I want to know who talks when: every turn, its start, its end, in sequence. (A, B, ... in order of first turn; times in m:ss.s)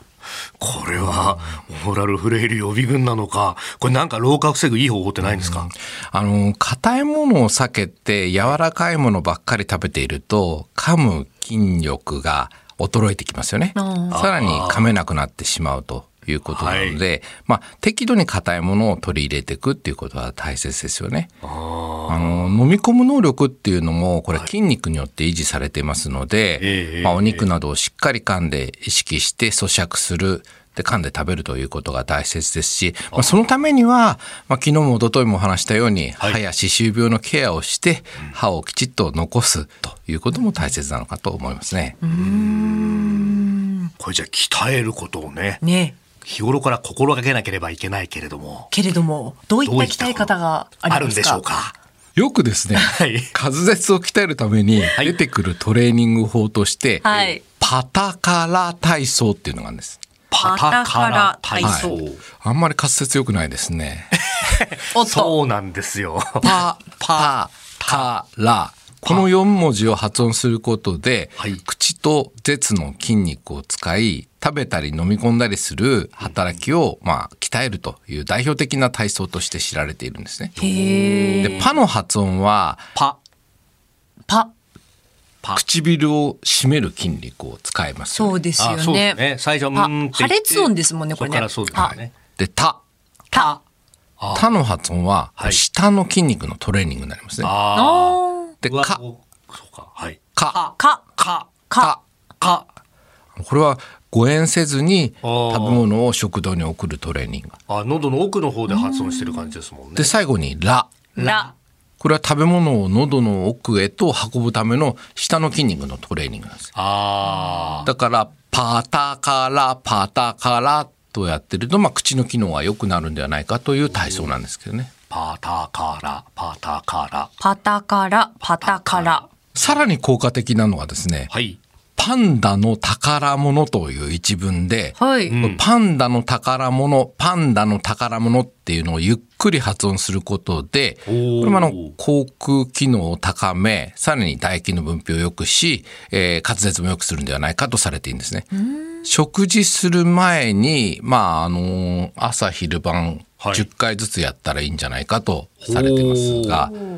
0:00.6-0:05.7 A
0:01.0-0:01.4 B
0:05.2-0:21.3 B
0:13.7-0:14.2 C
0:14.1-0:14.9 A
0:16.4-0:17.0 A
0:21.4-0:22.5 A
0:22.1-0:42.0 B
0:26.6-0:27.5 A
0:33.1-0:33.4 A
0:42.0-0:43.9 C
0:42.1-0:43.4 A
0:44.0-0:45.6 A
0:45.6-0:45.9 C
0:46.2-0:48.7 A
0:48.7-0:51.4 C
0:49.6-0:50.3 A
0:50.9-0:51.7 A
0:52.2-1:00.0 B
0:52.7-0:53.3 A
0:57.0-0:57.4 C
0:57.1-0:57.3 A
1:00.3-1:02.2 A
1:00.4-1:01.9 C
1:01.6-1:04.2 B
1:04.3-1:07.3 A
1:04.9-1:05.4 C
1:06.4-1:20.6 B
1:16.2-1:16.6 A
1:20.6-1:21.7 C
1:20.6-1:21.7 A
1:21.4-1:22.8 B
1:25.5-1:28.4 B
1:28.1-1:29.2 C
1:28.6-1:32.1 A
1:29.7-1:31.9 C
1:31.7-1:32.8 B
1:33.3-1:33.6 A
1:34.2-1:34.5 A
1:34.3-1:37.5 B
1:37.4-1:41.5 A
1:37.7-1:38.5 C
1:38.6-1:39.0 B
1:40.5-1:41.0 C
1:41.7-1:41.9 C
1:42.4-1:42.7 A
1:43.4-1:47.6 B
1:45.2-1:45.8 A
1:47.7-1:50.1 A
1:48.7-1:49.6 C
1:50.0-1:50.9 B
1:51.2-1:51.5 A
1:51.2-1:51.5 C
1:52.0-1:56.7 B
1:56.7-1:57.9 A
1:57.8-2:04.9 B
2:03.9-2:04.3 A
2:05.1-2:07.3 A
2:07.4-2:09.2 C
2:08.5-2:09.8 A
2:09.5-2:11.3 B
2:11.3-2:11.6 A
2:12.0-2:28.5 B
2:15.0-2:15.4 C
2:15.3-2:15.6 A
2:21.1-2:21.9 A
2:28.7-2:29.0 C
2:29.0-2:36.8 B
2:33.4-2:33.6 A
2:35.6-2:36.7 A